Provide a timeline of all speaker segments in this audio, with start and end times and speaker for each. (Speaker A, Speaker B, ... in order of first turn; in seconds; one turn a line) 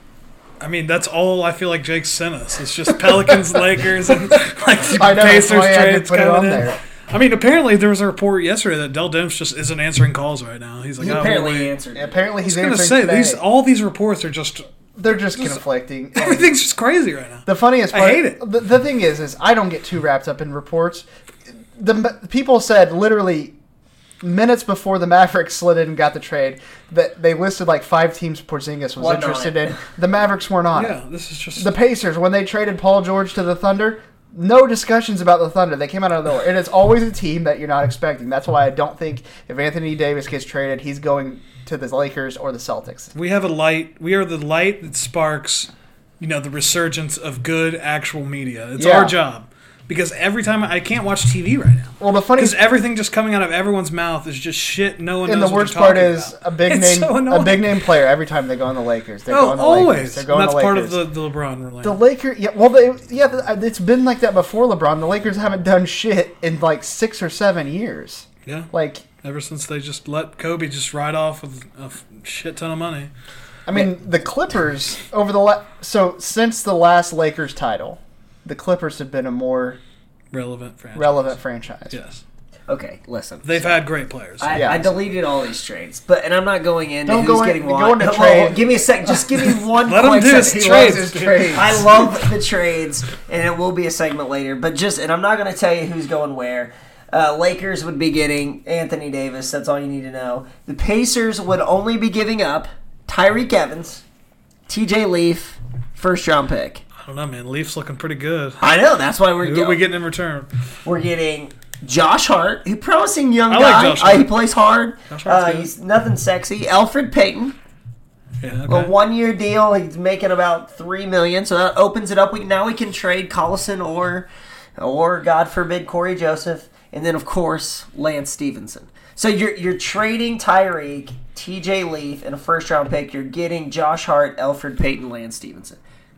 Speaker A: 0.6-11.7
Speaker B: 3.0-3.4
Speaker B: 4.1-4.3
Speaker B: 4.9-6.8
Speaker C: 11.0-12.2
Speaker B: 11.9-13.4
Speaker A: 12.4-14.7
Speaker B: 15.0-16.5
Speaker A: 15.3-15.6
Speaker A: 16.1-18.4
Speaker B: 17.4-21.1
Speaker B: 21.8-23.5
Speaker B: 24.2-31.0
Speaker C: 29.0-29.8
Speaker A: 30.7-31.7
Speaker B: 31.6-43.1
Speaker A: 43.1-57.8
Speaker B: 48.8-49.1
Speaker B: 52.0-52.6
Speaker B: 55.2-61.0
Speaker A: 59.3-62.0
Speaker B: 61.8-69.0
Speaker A: 69.2-73.1
Speaker B: 73.7-79.8
Speaker A: 80.3-81.4
Speaker B: 80.9-82.0
Speaker A: 81.9-82.2
Speaker C: 82.7-83.7
Speaker A: 83.4-84.7
Speaker C: 84.4-104.0
Speaker B: 84.5-85.0
Speaker B: 87.0-89.2
Speaker A: 89.8-91.8
Speaker B: 90.3-91.8
Speaker C: 104.7-106.8
Speaker A: 107.0-108.6
Speaker C: 108.6-109.8
Speaker A: 109.4-110.5
Speaker C: 110.8-117.5
Speaker A: 113.5-114.4
Speaker A: 115.1-115.7
Speaker A: 118.4-118.9
Speaker C: 118.7-135.8